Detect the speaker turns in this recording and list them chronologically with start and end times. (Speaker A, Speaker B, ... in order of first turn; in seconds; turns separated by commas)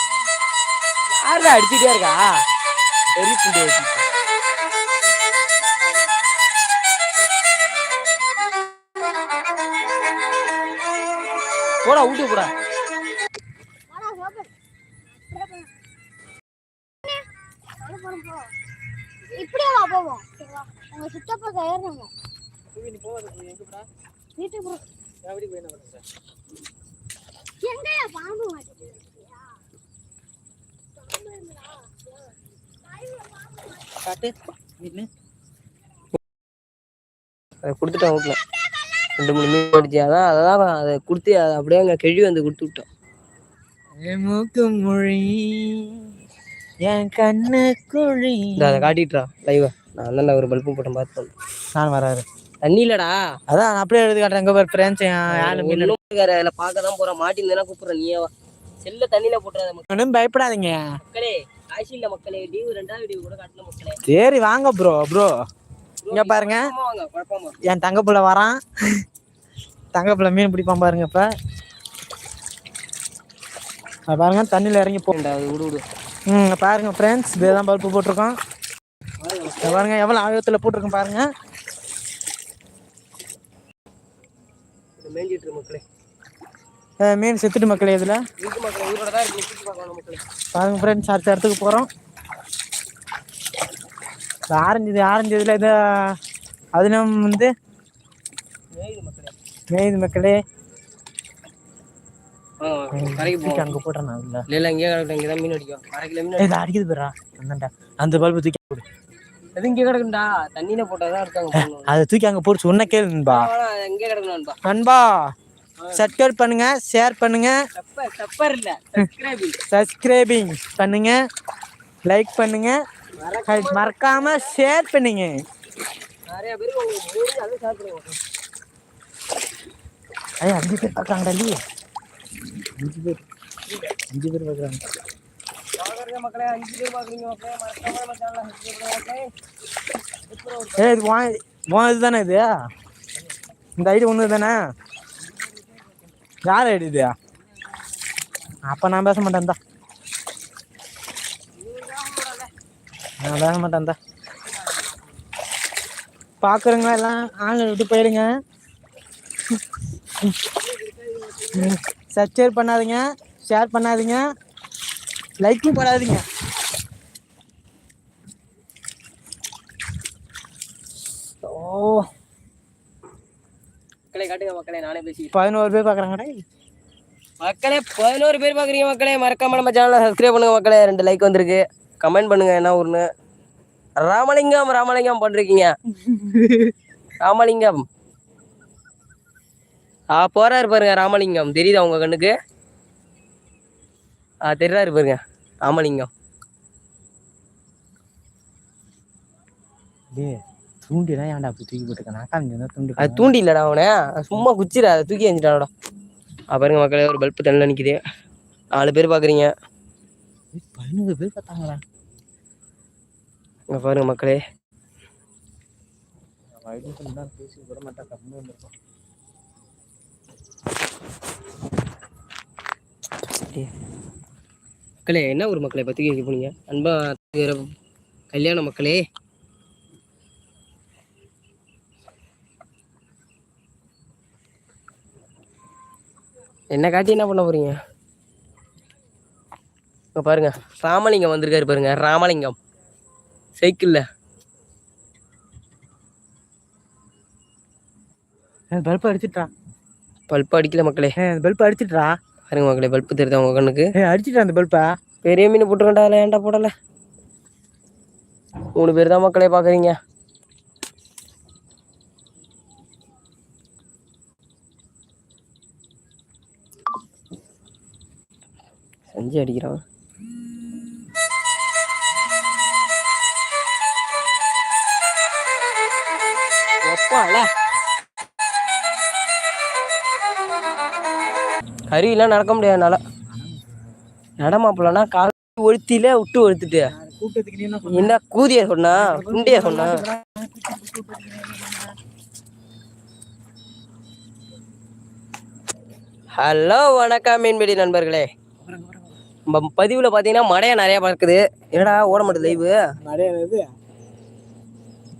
Speaker A: 1.1-2.3, Speaker A: 3.2-4.0, Speaker A: 11.8-12.5, Speaker B: 13.9-14.5, Speaker B: 15.3-15.7, Speaker B: 17.8-18.5, Speaker B: 19.3-22.1, Speaker C: 22.7-23.9, Speaker B: 24.4-24.8, Speaker C: 25.2-26.0, Speaker B: 27.6-29.1, Speaker B: 31.2-31.6, Speaker C: 34.0-35.1, Speaker A: 37.6-38.4, Speaker A: 39.2-42.9, Speaker C: 44.0-46.0, Speaker C: 46.8-48.9, Speaker A: 48.6-51.3, Speaker C: 51.8-52.2, Speaker A: 52.6-53.1, Speaker C: 53.5-55.9, Speaker A: 55.3-58.3, Speaker A: 58.8-59.9, Speaker C: 59.9-60.8, Speaker A: 61.0-64.0, Speaker C: 64.0-65.3, Speaker A: 66.0-67.5, Speaker C: 66.1-66.7, Speaker C: 67.7-68.6, Speaker C: 69.9-71.3, Speaker C: 74.1-75.1, Speaker A: 75.1-75.8, Speaker C: 76.3-78.3, Speaker A: 79.2-79.9, Speaker C: 79.6-81.2, Speaker A: 85.0-85.8, Speaker C: 87.0-88.2, Speaker A: 88.4-90.2, Speaker C: 90.5-91.9, Speaker C: 94.5-96.2, Speaker C: 96.7-97.5, Speaker A: 98.7-99.3, Speaker C: 99.7-100.4, Speaker A: 102.6-103.8, Speaker C: 102.9-104.4, Speaker A: 104.5-106.6, Speaker C: 106.4-108.8, Speaker A: 109.5-111.9, Speaker C: 111.5-113.5, Speaker A: 113.3-114.5, Speaker C: 114.6-115.2, Speaker A: 115.8-116.1, Speaker C: 115.9-117.5, Speaker A: 117.8-119.6, Speaker C: 119.7-121.1, Speaker C: 122.1-122.8, Speaker A: 123.2-124.5, Speaker C: 123.5-125.3, Speaker A: 126.3-128.2, Speaker C: 130.4-131.6, Speaker C: 132.8-133.2, Speaker C: 134.0-134.8, Speaker A: 135.8-139.3, Speaker A: 140.2-141.0, Speaker C: 140.8-142.5, Speaker C: 143.8-144.6, Speaker C: 146.4-147.1, Speaker C: 148.6-149.6, Speaker A: 151.6-152.5, Speaker C: 153.2-154.0, Speaker C: 156.4-158.3, Speaker A: 160.6-161.8, Speaker C: 161.6-164.2, Speaker C: 165.4-166.2, Speaker C: 171.5-172.0, Speaker A: 174.1-175.3, Speaker C: 175.3-176.4, Speaker A: 177.4-183.0, Speaker A: 184.0-185.7, Speaker C: 185.9-186.7, Speaker A: 187.2-187.8, Speaker A: 190.1-192.3, Speaker A: 194.4-196.1, Speaker C: 200.1-203.3, Speaker A: 203.0-205.7, Speaker A: 206.5-208.0, Speaker A: 208.7-209.5, Speaker C: 210.5-211.8, Speaker A: 213.7-214.4, Speaker C: 216.6-218.7, Speaker A: 223.4-223.7, Speaker A: 225.1-227.7, Speaker A: 228.3-229.0, Speaker A: 236.7-237.8, Speaker A: 240.2-242.6, Speaker A: 243.6-244.0, Speaker C: 248.7-249.5, Speaker A: 250.3-251.1, Speaker C: 251.2-252.1, Speaker A: 252.5-253.9, Speaker C: 253.9-254.8, Speaker A: 255.2-256.7, Speaker A: 258.8-259.9, Speaker A: 269.1-269.8, Speaker A: 276.8-277.5, Speaker A: 281.9-283.0, Speaker A: 284.4-286.9, Speaker C: 286.9-288.2, Speaker A: 287.9-290.0, Speaker C: 288.9-291.9, Speaker A: 296.4-298.3, Speaker C: 298.6-299.1, Speaker A: 299.5-302.8, Speaker C: 302.1-303.6